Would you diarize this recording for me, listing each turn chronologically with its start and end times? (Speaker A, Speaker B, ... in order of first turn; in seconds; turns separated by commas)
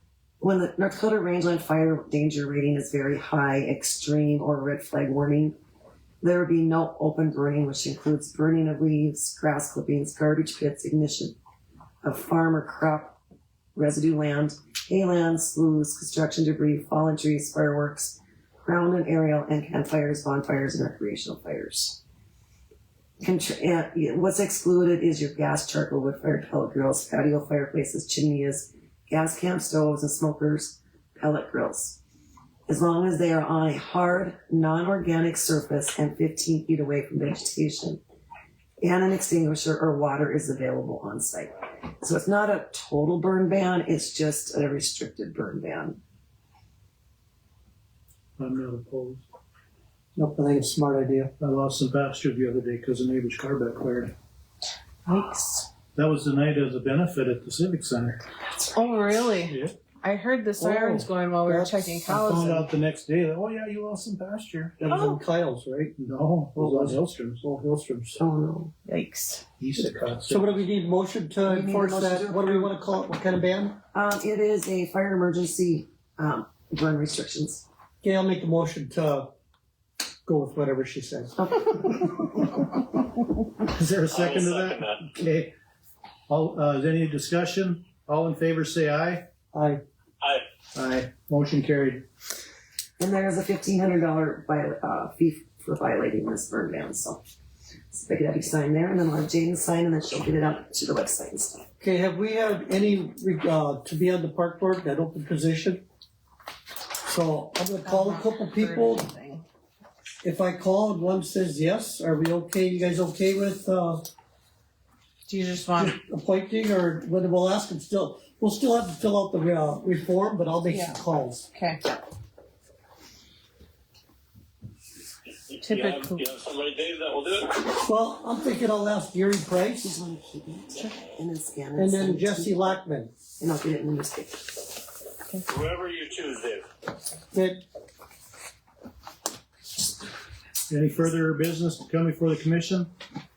Speaker A: 0.4-5.6, Speaker A: 6.2-11.4, Speaker A: 12.0-13.2, Speaker A: 13.7-22.0, Speaker A: 23.2-32.0, Speaker A: 32.7-38.0, Speaker A: 38.8-46.0, Speaker B: 48.4-49.2, Speaker C: 50.1-51.3, Speaker B: 51.4-54.1, Speaker D: 55.0-55.7, Speaker B: 55.9-58.2, Speaker A: 58.4-58.8, Speaker D: 58.7-62.6, Speaker B: 59.5-59.7, Speaker C: 60.6-62.7, Speaker B: 62.1-64.8, Speaker C: 64.8-65.9, Speaker D: 64.9-65.2, Speaker B: 66.0-67.4, Speaker C: 66.5-68.2, Speaker A: 68.2-68.7, Speaker D: 68.8-69.4, Speaker B: 69.6-70.6, Speaker C: 70.3-73.8, Speaker A: 71.4-72.8, Speaker A: 73.9-77.6, Speaker C: 78.0-79.3, Speaker C: 80.2-81.3, Speaker A: 81.4-82.2, Speaker B: 83.6-85.5, Speaker E: 84.1-85.0, Speaker B: 86.3-89.3, Speaker C: 89.5-89.8, Speaker B: 90.7-92.0, Speaker A: 93.0-97.2, Speaker A: 97.9-101.6, Speaker C: 101.8-105.8, Speaker C: 107.0-109.1, Speaker D: 107.8-109.4, Speaker C: 110.2-114.1, Speaker D: 115.2-116.0, Speaker C: 115.8-121.4, Speaker D: 120.7-121.8, Speaker E: 125.5-127.6, Speaker D: 125.6-126.2, Speaker C: 127.7-129.9, Speaker A: 129.8-132.5, Speaker C: 131.8-133.1, Speaker A: 133.4-134.6, Speaker E: 135.5-136.7, Speaker C: 137.3-137.6, Speaker B: 140.7-142.9